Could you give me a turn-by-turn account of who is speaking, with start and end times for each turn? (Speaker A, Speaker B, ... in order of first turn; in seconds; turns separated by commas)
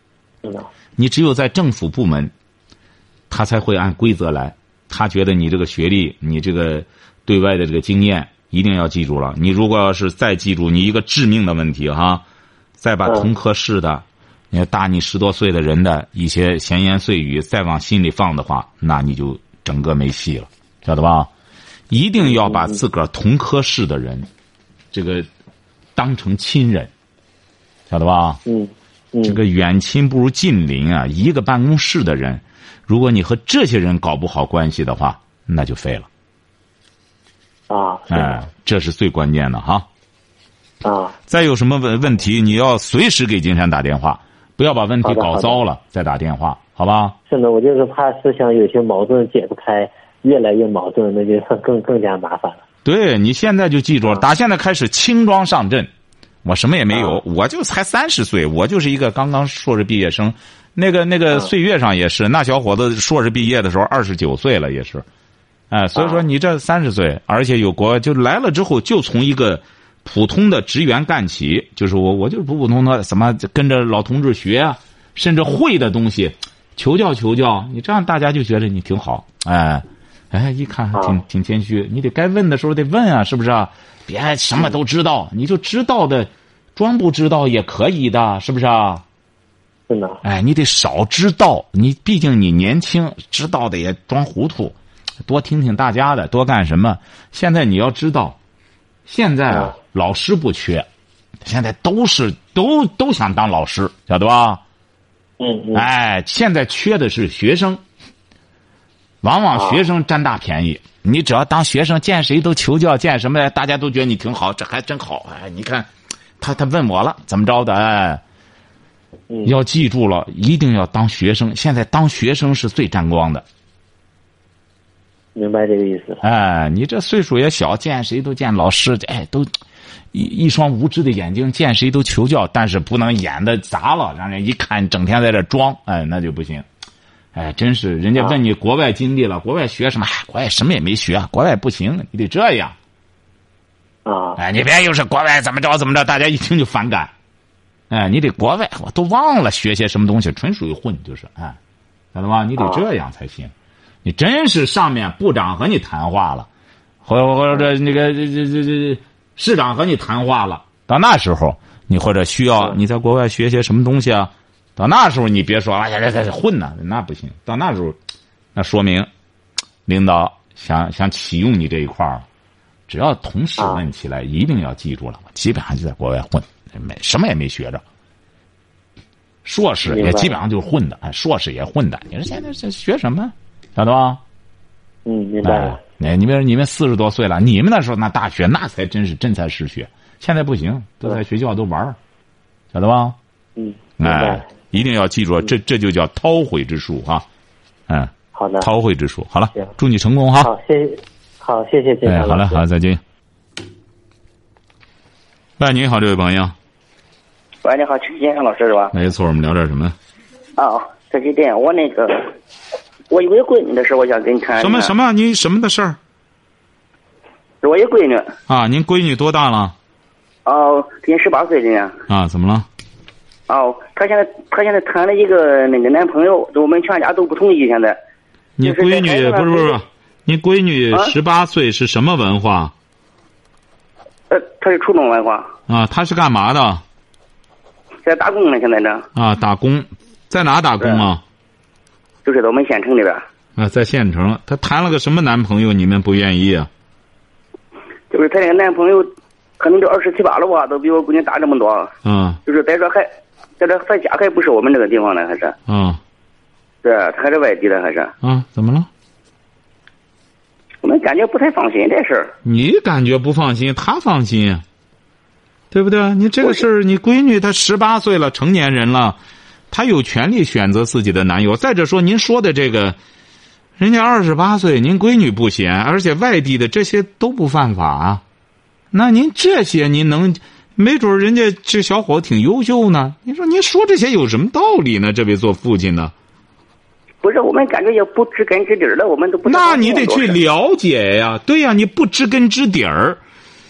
Speaker A: 1.0-2.3, Speaker A: 3.3-12.2, Speaker A: 12.8-21.3, Speaker A: 21.9-24.3, Speaker B: 22.2-22.8, Speaker A: 24.9-25.3, Speaker A: 26.0-26.9, Speaker A: 27.9-28.4, Speaker B: 28.5-29.4, Speaker A: 29.2-36.1, Speaker B: 37.7-38.4, Speaker A: 38.1-39.9, Speaker B: 40.8-41.2, Speaker A: 41.3-47.2, Speaker B: 45.0-45.6, Speaker B: 47.3-52.6, Speaker A: 52.9-55.9, Speaker A: 56.4-65.0, Speaker B: 56.9-57.2, Speaker A: 65.7-89.0, Speaker B: 66.0-66.2, Speaker B: 80.9-81.2, Speaker B: 89.9-90.2, Speaker A: 90.2-98.4, Speaker A: 99.1-100.9, Speaker A: 101.4-104.6, Speaker B: 105.4-105.9, Speaker A: 105.7-107.8, Speaker A: 109.2-118.2, Speaker B: 109.5-109.8, Speaker A: 119.4-123.5, Speaker B: 125.3-126.2, Speaker A: 126.2-129.5, Speaker A: 130.1-136.7, Speaker A: 137.3-142.8, Speaker B: 144.1-144.4, Speaker A: 144.4-147.1, Speaker A: 147.9-151.6, Speaker A: 152.1-153.5, Speaker A: 154.0-156.5, Speaker A: 157.1-168.0, Speaker A: 168.6-169.1, Speaker A: 169.9-172.3, Speaker A: 172.9-177.8, Speaker A: 179.4-184.2, Speaker B: 179.9-180.3, Speaker B: 185.1-185.8, Speaker A: 185.4-192.0, Speaker A: 192.7-193.2, Speaker B: 193.6-194.4, Speaker A: 194.0-197.3, Speaker A: 197.9-200.5, Speaker B: 198.3-198.7, Speaker B: 200.4-202.6, Speaker A: 202.1-203.0, Speaker A: 205.6-206.5, Speaker C: 207.6-208.9, Speaker A: 208.9-209.9, Speaker C: 210.6-212.4, Speaker C: 213.1-214.9, Speaker A: 214.6-216.0, Speaker C: 217.6-218.3, Speaker A: 218.5-219.7, Speaker C: 220.4-222.0, Speaker A: 222.1-222.7, Speaker C: 223.5-228.0, Speaker A: 228.6-232.7, Speaker C: 228.6-229.8, Speaker C: 234.3-235.5, Speaker A: 235.7-236.8, Speaker C: 238.0-239.1, Speaker A: 239.2-241.2, Speaker C: 242.2-243.2, Speaker A: 243.6-246.7, Speaker C: 248.1-251.9, Speaker A: 252.1-252.4, Speaker C: 252.4-255.6, Speaker A: 255.7-256.0, Speaker C: 256.8-258.1, Speaker A: 258.2-258.9, Speaker C: 260.8-262.3, Speaker A: 262.4-264.6, Speaker A: 265.7-269.2, Speaker A: 269.7-273.0, Speaker A: 273.8-278.2, Speaker A: 278.9-286.1, Speaker C: 287.2-290.4, Speaker A: 289.4-293.2